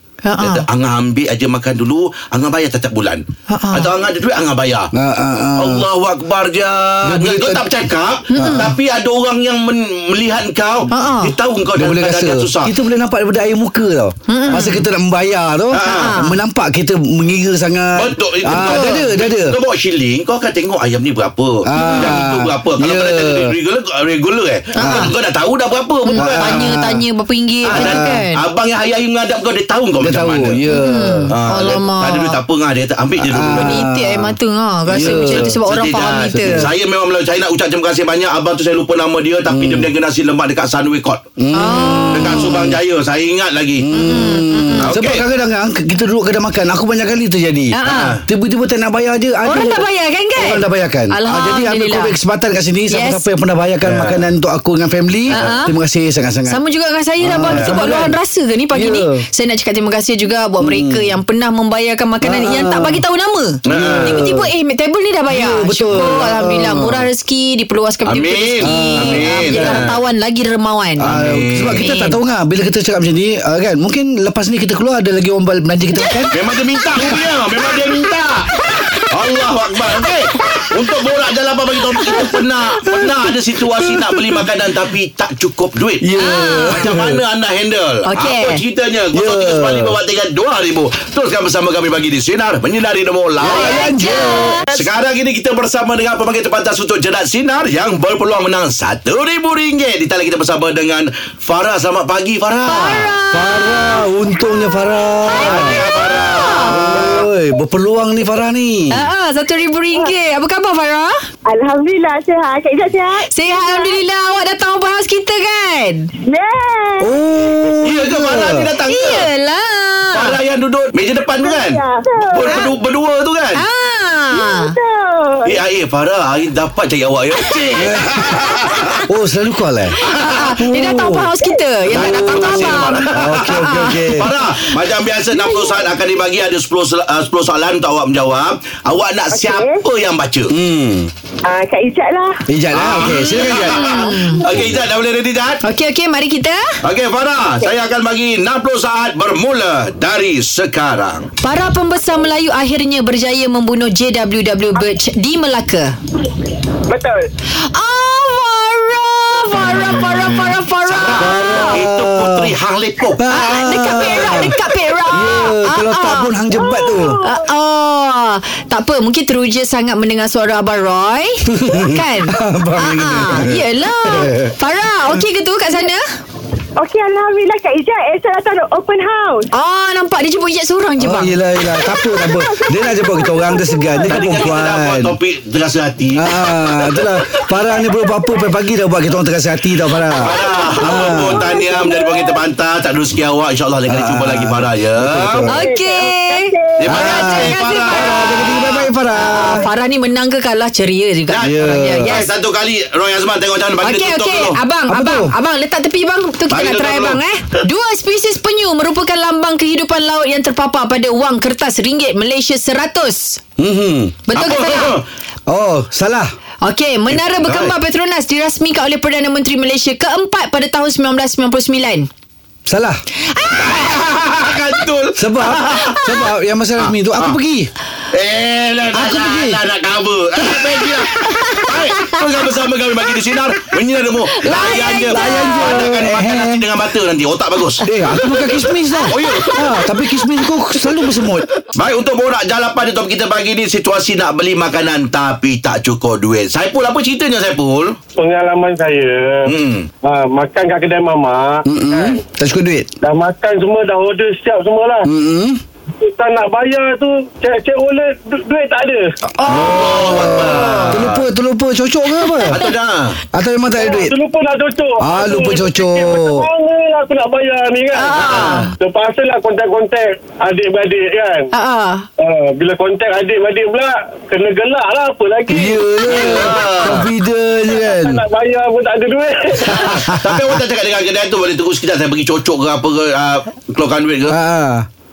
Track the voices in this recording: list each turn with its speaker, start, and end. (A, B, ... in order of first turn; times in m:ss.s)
0:00.2-0:00.6 A
0:00.4-0:04.9 B
0:03.5-0:03.9 A
0:04.9-0:05.8 C
0:05.6-0:12.7 B
0:07.0-0:07.7 C
0:08.3-0:08.7 A
0:08.4-0:08.7 C
0:10.9-0:11.3 A
0:11.8-0:19.6 C
0:14.3-0:14.9 A
0:15.7-0:16.2 B
0:15.8-0:16.4 A
0:18.0-0:26.8 B
0:18.5-0:19.0 A
0:21.7-0:23.6 C
0:21.8-0:22.2 A
0:24.8-0:25.1 A
0:24.8-0:25.1 C
0:26.1-0:28.4 A
0:26.2-0:27.0 C
0:27.7-0:28.2 C
0:27.7-0:30.6 B
0:30.0-0:31.3 C
0:30.7-0:32.4 A
0:31.3-0:33.9 B
0:33.2-0:34.4 C
0:33.5-0:36.7 A
0:34.9-0:35.6 C
0:34.9-0:41.3 B
0:36.3-0:36.7 C
0:39.5-0:39.9 C
0:41.4-0:42.8 C
0:41.6-0:42.7 A
0:42.1-0:43.9 B
0:43.8-0:56.6 C
0:43.9-0:44.9 A
0:44.8-0:45.2 B
0:47.7-0:48.2 A
0:47.8-0:48.2 B
0:49.4-0:52.2 A
0:52.9-0:53.2 A
0:53.8-0:54.3 B
0:55.3-0:55.8 A
0:56.5-1:12.2 A
0:57.2-0:58.2 C
0:57.3-0:57.8 B
0:58.7-0:59.2 C
1:00.6-1:01.1 C
1:02.2-1:03.0 C
1:03.7-1:04.2 B
1:03.7-1:04.5 C
1:05.3-1:07.1 C
1:08.1-1:10.0 B
1:08.6-1:09.9 C
1:11.0-1:16.4 C
1:11.0-1:11.8 B
1:16.0-1:16.3 A
1:16.3-1:18.5 B
1:17.0-1:17.2 C
1:18.6-1:19.1 A
1:19.1-1:26.1 B
1:20.4-1:20.7 A
1:22.0-1:22.3 A
1:22.9-1:23.2 C
1:23.8-1:24.4 C
1:26.0-1:27.2 C
1:26.2-1:26.8 A
1:26.7-1:33.8 B
1:28.1-1:28.6 A
1:29.1-1:30.0 C
1:33.4-1:34.7 C
1:33.4-1:34.7 A
1:34.7-1:43.1 B
1:42.7-1:44.6 A
1:43.3-1:45.8 C
1:45.2-1:47.2 A
1:45.4-1:47.0 B
1:46.7-1:49.0 C
1:48.9-1:51.2 A
1:51.5-1:54.0 D
1:53.3-1:56.1 A
1:56.2-1:57.1 D
1:57.0-1:58.7 C
1:57.8-1:59.3 B
1:58.8-2:00.4 A
2:00.1-2:03.6 B
2:01.4-2:02.7 D
2:03.6-2:04.8 A
2:04.3-2:05.6 D
2:05.4-2:09.0 B
2:07.8-2:11.3 C
2:08.5-2:09.0 A
2:10.0-2:14.2 A
2:10.0-2:10.5 B
2:11.9-2:14.3 C
2:11.9-2:20.6 B
2:15.3-2:15.9 D
2:19.3-2:19.8 D
2:20.5-2:21.1 C
2:21.4-2:22.4 D
2:22.5-2:23.8 C
2:22.7-2:25.6 B
2:23.6-2:24.8 D
2:23.7-2:24.4 A
2:25.6-2:26.8 A
2:26.8-2:31.3 B
2:31.4-2:36.0 A
2:36.9-2:37.3 E
2:37.6-2:41.8 A
2:40.9-2:43.3 B
2:41.2-2:42.6 C
2:43.2-2:47.2 C
2:43.3-2:46.4 A
2:46.5-2:47.5 D
2:47.2-2:56.0 A
2:51.5-2:54.5 C
2:56.8-2:59.5 D
2:59.5-3:01.4 A
3:01.0-3:05.2 C
3:01.8-3:04.5 D
3:04.1-3:06.5 B
3:06.2-3:11.6 C
3:06.8-3:08.5 D
3:10.1-3:12.4 D
3:10.2-3:15.4 B
3:13.9-3:15.6 C
3:15.5-3:18.4 A
3:15.5-3:17.0 D
3:16.8-3:18.9 B
3:16.9-3:19.7 C
3:19.2-3:22.3 A
3:19.2-3:19.6 D
3:21.3-3:24.6 B
3:21.4-3:22.1 C
3:23.8-3:33.4 A
3:24.9-3:25.3 C
3:26.5-3:27.2 B
3:33.6-3:34.2 C
3:34.3-3:35.0 A
3:34.4-3:35.1 B
3:35.5-3:36.3 C
3:36.6-3:42.1 A
3:37.1-3:37.8 B
3:42.7-3:43.0 C
3:43.3-3:44.0 A
3:43.6-3:46.0 B
3:45.2-3:47.7 C
3:45.8-3:46.2 A
3:46.8-3:47.4 B
3:48.1-4:00.2 B
3:48.9-3:49.6 C
3:51.2-3:52.2 A
3:54.4-3:55.9 A
3:54.5-3:56.6 C
3:57.8-4:01.5 C
4:01.6-4:08.0 B
4:08.2-4:12.2 E
4:09.4-4:09.9 B
4:11.6-4:12.9 C
4:13.0-4:15.1 E
4:15.0-4:15.6 C
4:16.0-4:19.1 E
4:19.4-4:21.0 A
4:19.4-4:22.6 C
4:19.5-4:21.3 B
4:22.3-4:22.7 A
4:22.5-4:23.2 B
4:23.3-4:24.2 C
4:23.8-4:28.2 E
4:25.0-4:26.5 C
4:27.9-4:28.8 A
4:28.2-4:28.7 B
4:28.8-4:31.5 E
4:31.5-4:32.1 A
4:32.2-4:35.9 E
4:35.5-4:38.2 C
4:36.1-4:37.1 B
4:37.7-4:40.0 E
4:39.6-4:40.4 C
4:39.8-4:44.4 B
4:44.3-4:44.9 C